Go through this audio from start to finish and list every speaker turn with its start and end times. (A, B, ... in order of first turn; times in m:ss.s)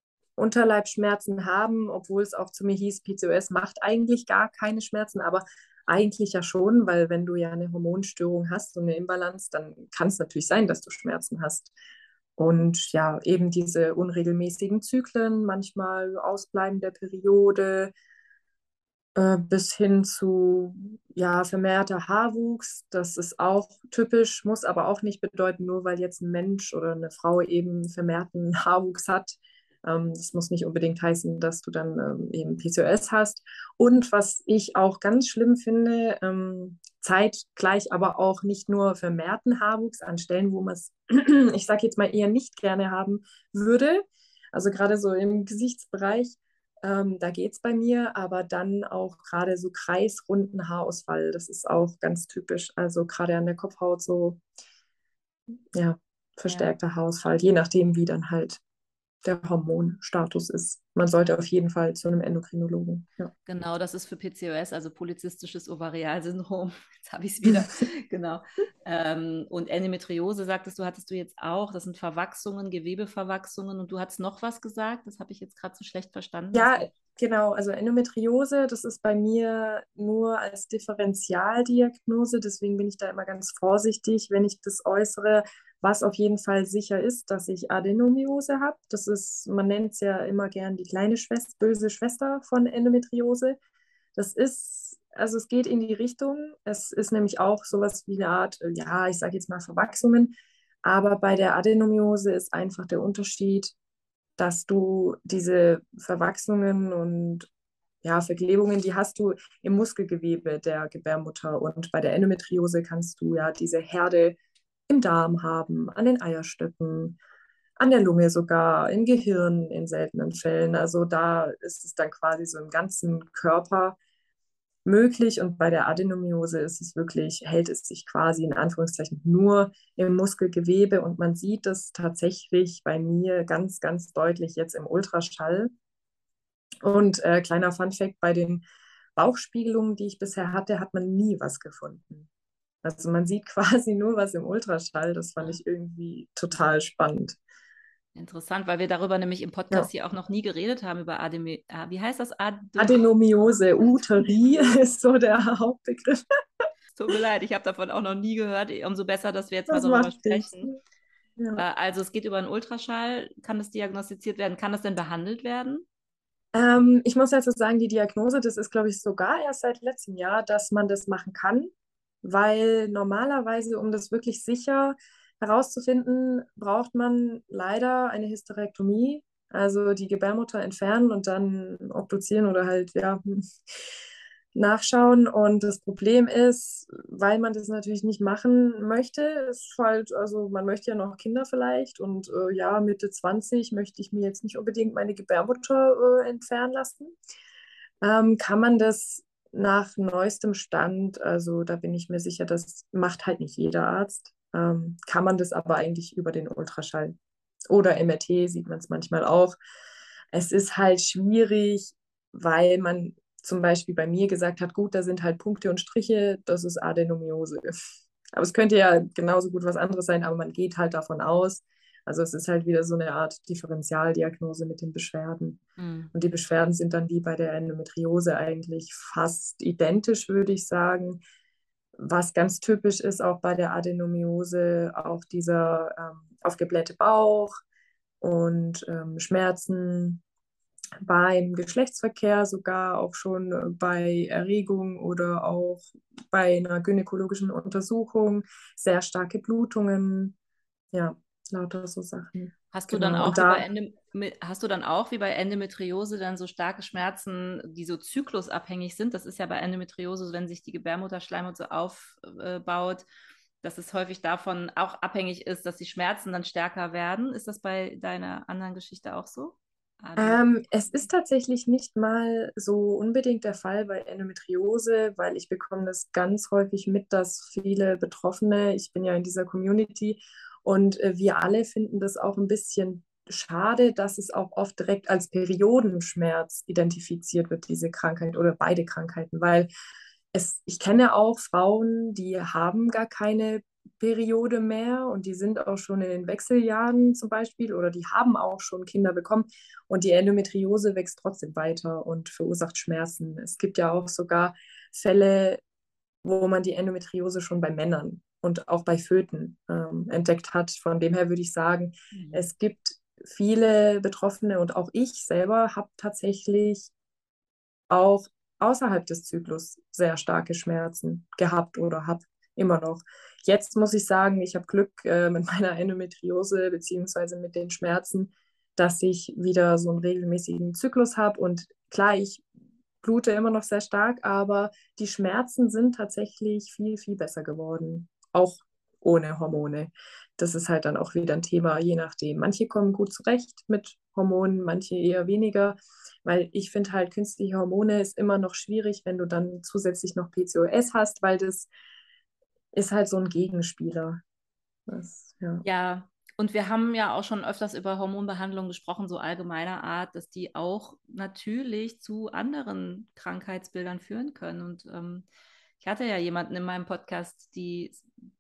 0:00.4-0:11.7 A
0:12.4-0:17.9 A
0:19.2-0:54.4 A
0:55.8-0:58.6 A
0:56.4-0:56.8 B
0:59.2-1:03.3 A
1:03.5-1:16.9 B
1:16.5-1:33.6 A
1:34.2-1:40.3 A
1:40.8-1:43.8 A
1:44.4-1:47.5 A
1:48.0-1:54.4 A
1:54.9-1:57.2 A
1:57.8-2:04.0 A
2:04.8-2:15.7 A
2:16.8-2:18.6 A
2:19.2-2:22.3 A
2:22.8-2:27.4 A
2:28.2-2:33.0 B
2:32.8-2:36.2 A
2:36.9-2:40.7 B
2:39.7-2:40.8 A
2:41.4-2:41.6 A
2:41.6-2:45.9 B
2:46.5-2:51.7 A
2:52.2-3:03.4 A
3:04.6-3:17.2 A
3:18.0-3:27.2 A
3:27.7-3:29.6 A
3:30.3-3:37.8 A
3:38.3-3:45.6 A
3:45.8-3:46.1 B
3:46.1-3:51.2 A
3:52.0-3:57.6 A
3:58.2-4:00.2 A
4:01.0-4:10.4 A
4:10.9-4:13.6 A
4:12.7-4:23.1 B
4:23.6-4:31.1 B
4:30.2-4:49.7 A
4:50.3-5:05.6 A
5:06.2-5:16.9 A
5:12.1-5:12.5 B
5:17.9-5:32.4 A
5:33.0-5:51.7 A
5:52.7-5:54.2 A
5:54.9-5:55.6 A
5:55.6-6:05.3 B
6:05.8-6:08.1 B